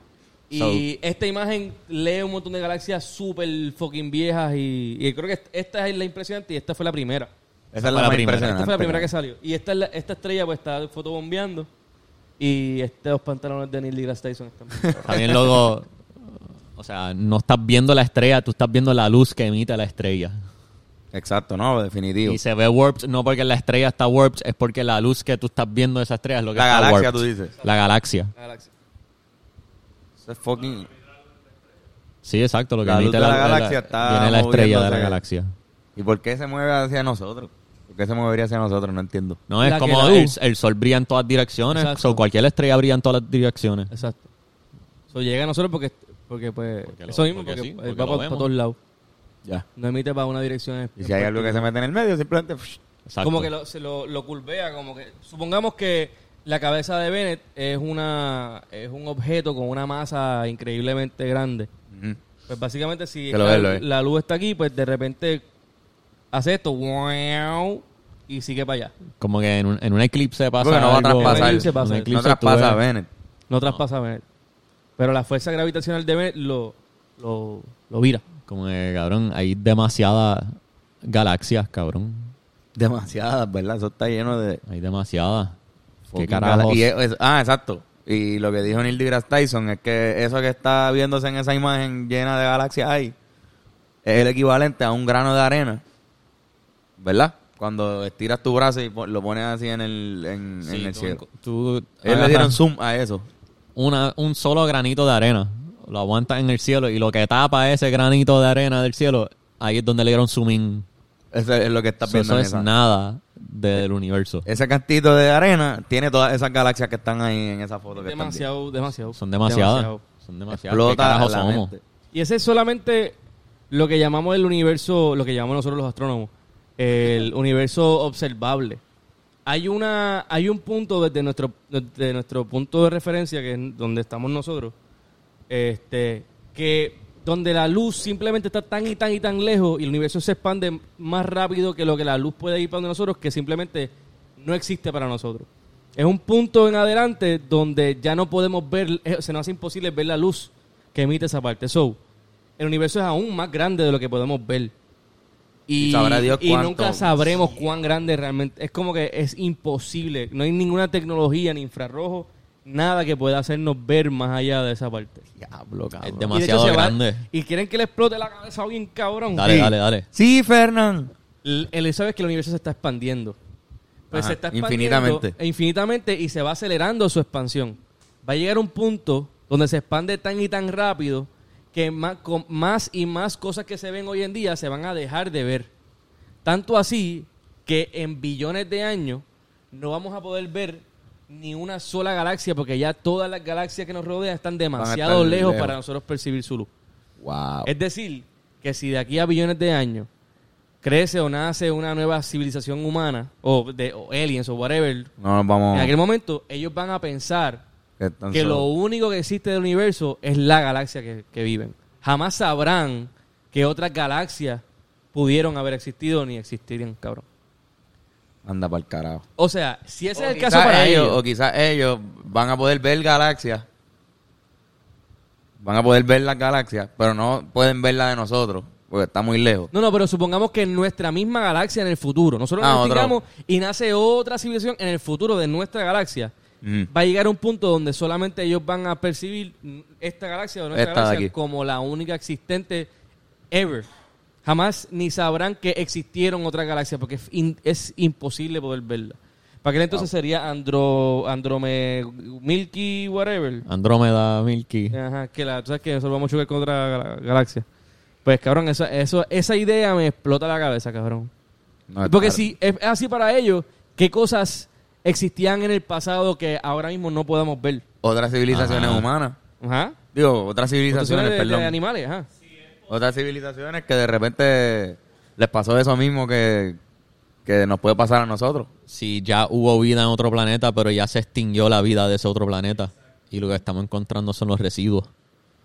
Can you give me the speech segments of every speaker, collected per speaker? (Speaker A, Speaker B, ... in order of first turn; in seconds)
Speaker A: 0.5-7.3, 8.4-11.7, 12.4-15.2, 28.4-28.7, 39.6-40.4, 41.7-42.2, 43.9-44.3, 45.1-48.8, 49.8-51.7, 53.2-61.7, 62.5-65.5, 66.3-69.0, 71.2-72.1, 73.5-74.2, 75.0-78.2, 118.0-120.0, 122.1-123.2, 123.7-128.8, 129.5-134.8, 135.5-152.0, 152.6-154.7, 155.7-165.3, 166.3-169.5, 171.4-173.4, 174.1-185.7, 186.4-196.7, 197.6-200.1, 200.8-205.1, 205.7-207.6, 208.3-214.6, 215.1-217.2, 219.4-221.2, 229.7-236.3, 236.9-242.9, 243.5-243.9, 244.4-253.7, 254.9-257.6, 258.2-261.3, 262.0-267.8, 269.6-270.0, 270.9-272.3
Speaker B: 0.5-0.8, 7.7-9.1, 21.1-22.4, 26.6-27.5, 30.2-30.9, 32.8-35.2, 36.0-39.4, 51.0-52.8, 61.9-62.2, 63.3-63.8, 70.6-73.1, 82.8-84.6, 86.1-93.2, 94.0-95.8, 97.0-101.2, 102.0-103.3, 111.3-112.7, 114.5-118.4, 120.5-121.8, 155.8-157.3, 165.4-166.4, 169.4-171.1, 174.1-175.3, 194.8-195.8, 197.2-197.7, 205.2-205.9, 208.0-208.7, 218.4-219.2, 220.2-223.7, 225.6-229.7, 232.6-233.2, 236.6-236.9, 240.7-241.3, 261.9-262.4, 268.0-269.4, 270.1-271.8, 272.9-276.8, 277.5-278.7
Speaker C: 7.8-8.6, 15.1-20.4, 22.2-28.3, 32.2-35.5, 39.5-43.9, 46.9-48.5, 53.1-53.5, 69.2-72.8, 78.5-82.3, 84.7-85.5, 86.1-86.9, 100.6-102.6, 103.8-110.8, 112.0-114.5, 119.2-121.7, 166.0-167.2, 169.3-170.1, 253.7-255.0, 268.5-269.1, 278.9-285.1